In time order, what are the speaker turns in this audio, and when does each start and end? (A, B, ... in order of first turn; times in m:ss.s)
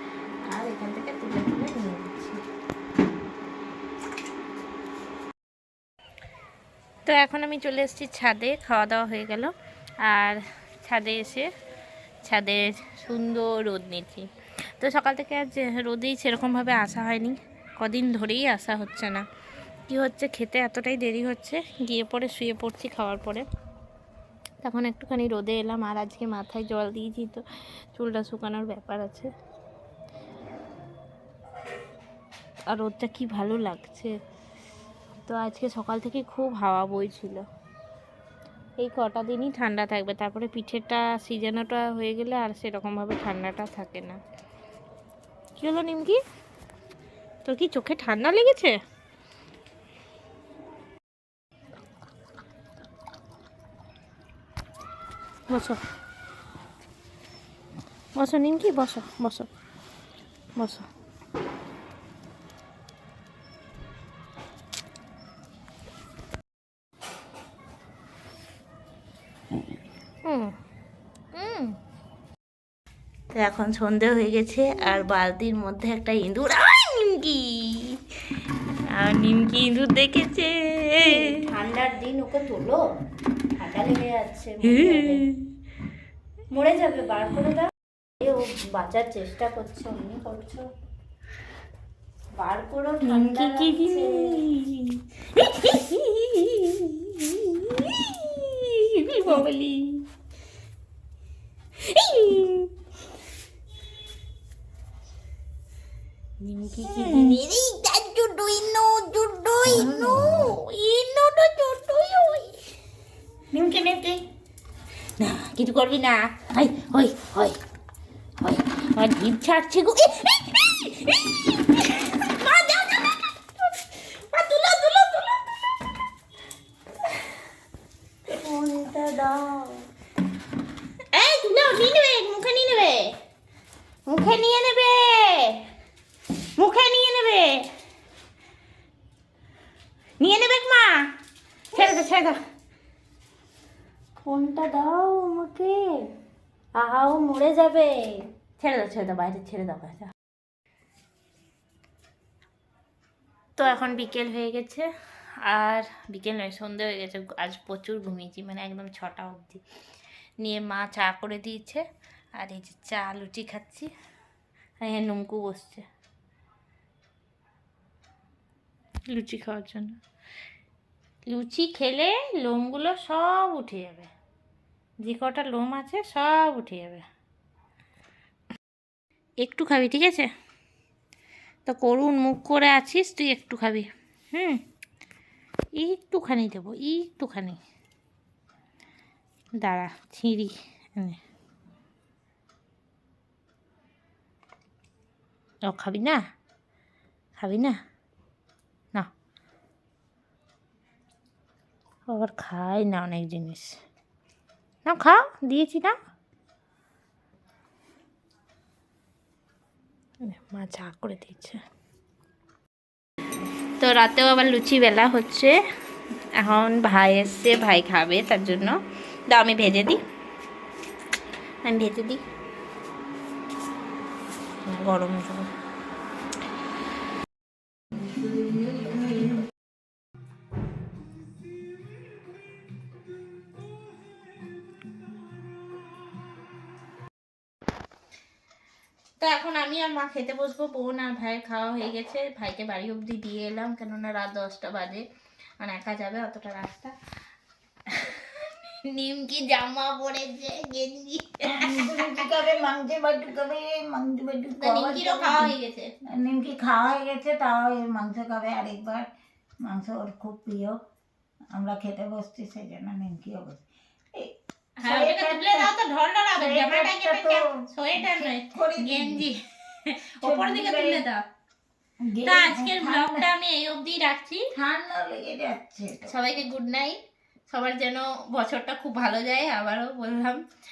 0:00.4-0:02.4 A
0:07.0-0:09.5 A
0:10.0-0:11.5 A
0:12.2-0:19.2 A
0:19.9-0:23.4 A
0:24.6-0:27.4 A
0:27.9-0:29.3 A
0:32.7-0:34.1 A
0:35.3-0:37.4 A
0:38.8-0:44.2 A
0:45.6-0:46.2 A
0:47.4-0:48.8 A
0:55.5-0:55.8 A
0:58.2-0:59.5 A
1:00.6-1:00.9 A
1:10.2-1:10.5 A
1:11.3-1:11.8 A
1:13.3-1:18.0 A
1:18.9-1:21.4 A
1:21.0-1:22.8 B
1:23.6-1:25.2 B
1:24.6-1:25.5 A
1:26.5-1:30.6 B
1:32.4-1:34.4 B
1:33.0-1:40.0 A
1:41.8-1:42.7 A
1:46.4-1:52.6 A
1:47.0-1:47.4 C
1:49.8-1:50.5 C
1:53.5-1:54.2 C
1:55.2-1:57.6 A
1:58.4-2:03.3 A
2:04.1-2:05.4 A
2:08.3-2:09.8 B
2:11.1-2:13.1 A
2:14.1-2:15.6 A
2:16.6-2:17.7 A
2:20.2-2:21.1 A
2:21.7-2:22.4 A
2:24.2-2:26.0 B
2:26.8-2:28.2 B
2:28.6-2:30.1 A
2:33.6-2:34.9 A
2:35.4-2:39.6 A
2:40.4-2:41.8 A
2:42.4-2:43.9 A
2:44.8-2:45.8 A
2:49.1-2:50.0 A
2:51.3-2:54.1 A
2:55.0-2:57.0 A
2:59.4-3:00.3 A
3:01.7-3:04.6 A
3:05.8-3:07.6 A
3:09.6-3:11.2 A
3:15.7-3:16.2 A
3:17.4-3:17.8 A
3:22.1-3:23.8 A
3:24.8-3:26.0 A
3:30.2-3:31.6 A
3:33.8-3:35.5 A
3:36.4-3:38.8 A
3:39.3-3:40.0 A
3:41.6-3:42.2 A
3:44.6-3:45.5 A
3:59.2-4:05.0 A
4:05.6-4:06.9 A
4:07.9-4:12.4 A
4:11.4-4:15.5 C
4:14.5-4:15.9 A
4:16.0-4:19.1 C
4:19.6-4:20.8 C
4:21.5-4:23.6 C
4:24.1-4:25.7 C
4:24.8-4:31.2 A
4:26.4-4:29.3 C
4:30.2-4:31.0 C
4:32.0-4:33.3 C
4:32.2-4:34.5 A
4:34.5-4:36.1 C
4:36.0-4:37.0 A
4:37.5-4:40.4 A